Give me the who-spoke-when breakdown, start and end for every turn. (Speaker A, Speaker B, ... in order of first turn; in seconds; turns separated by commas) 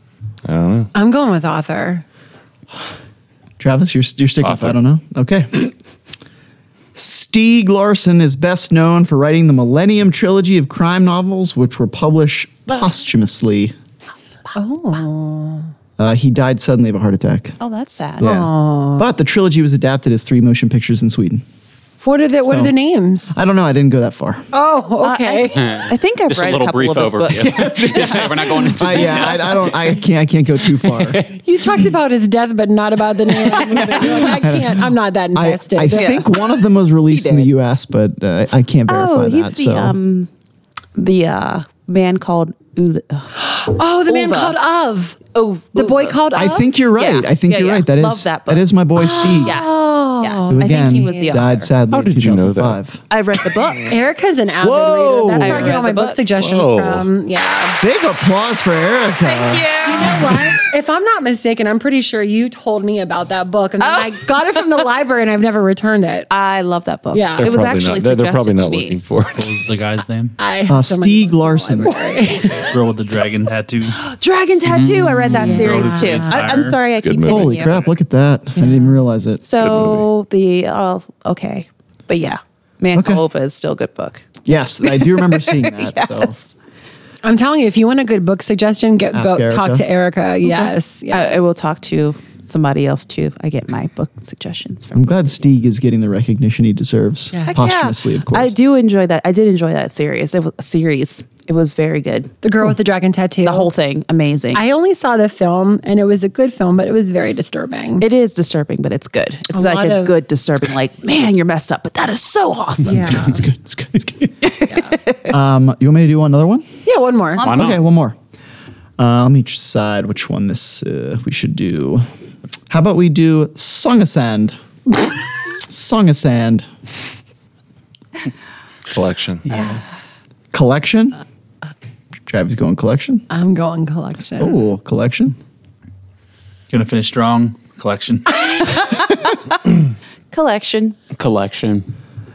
Speaker A: 0.5-0.9, Speaker B: 0.9-2.0, Speaker C: 3.6-5.7, Speaker A: 4.4-4.8, Speaker C: 7.0-13.8, Speaker B: 14.6-15.7, Speaker C: 16.0-17.6, Speaker D: 17.6-18.2, Speaker C: 18.2-21.4, Speaker B: 18.2-19.1, Speaker B: 22.0-23.4, Speaker C: 22.4-22.7, Speaker C: 23.3-24.4, Speaker B: 24.5-25.7, Speaker D: 25.0-27.7, Speaker E: 25.6-30.0, Speaker C: 27.5-31.2, Speaker E: 30.8-31.3, Speaker B: 31.4-36.3, Speaker C: 33.7-40.0, Speaker D: 35.9-36.5, Speaker D: 37.1-37.5, Speaker D: 38.9-40.3, Speaker D: 41.0-43.4, Speaker B: 43.4-45.2, Speaker D: 44.1-44.6, Speaker D: 45.3-46.2, Speaker B: 45.7-46.7, Speaker C: 46.3-49.6, Speaker D: 47.0-51.7, Speaker B: 49.5-51.6, Speaker C: 50.5-53.0, Speaker A: 51.9-52.8, Speaker D: 53.1-53.9, Speaker B: 53.9-57.8, Speaker C: 54.6-55.8, Speaker D: 55.4-56.3, Speaker A: 56.4-57.1, Speaker C: 57.8-59.7, Speaker D: 59.2-60.4, Speaker B: 59.8-66.3, Speaker D: 63.8-64.2, Speaker D: 66.3-69.0, Speaker B: 67.1-67.5, Speaker A: 67.4-69.6, Speaker F: 69.3-70.4, Speaker B: 70.4-72.7, Speaker C: 70.7-72.0, Speaker F: 72.5-74.0, Speaker D: 74.0-77.9, Speaker F: 74.7-76.8, Speaker B: 75.3-76.6, Speaker A: 77.0-77.9, Speaker C: 77.2-79.4, Speaker D: 79.4-84.3, Speaker A: 79.6-80.1, Speaker C: 82.9-83.2, Speaker C: 84.5-86.4, Speaker D: 84.8-86.5, Speaker B: 87.2-91.4, Speaker C: 89.1-89.9, Speaker D: 90.4-95.2, Speaker C: 94.9-98.5, Speaker B: 97.3-97.6, Speaker D: 97.5-102.3, Speaker B: 102.4-103.7, Speaker D: 103.4-104.6, Speaker B: 104.5-108.0, Speaker D: 108.0-113.4, Speaker B: 109.5-110.2, Speaker B: 112.8-113.4, Speaker C: 112.9-114.4, Speaker D: 114.5-115.2, Speaker B: 114.7-115.0, Speaker C: 115.3-116.7, Speaker B: 116.8-117.4, Speaker D: 117.4-117.7, Speaker E: 117.4-117.8, Speaker C: 117.5-118.2, Speaker C: 119.0-122.1, Speaker C: 122.7-124.6, Speaker C: 125.7-126.7, Speaker A: 128.9-129.8, Speaker C: 130.5-131.2, Speaker C: 132.3-133.3, Speaker B: 133.3-134.6, Speaker C: 134.4-135.4, Speaker F: 136.7-138.7, Speaker D: 139.3-139.5, Speaker D: 140.3-141.0, Speaker E: 141.1-141.9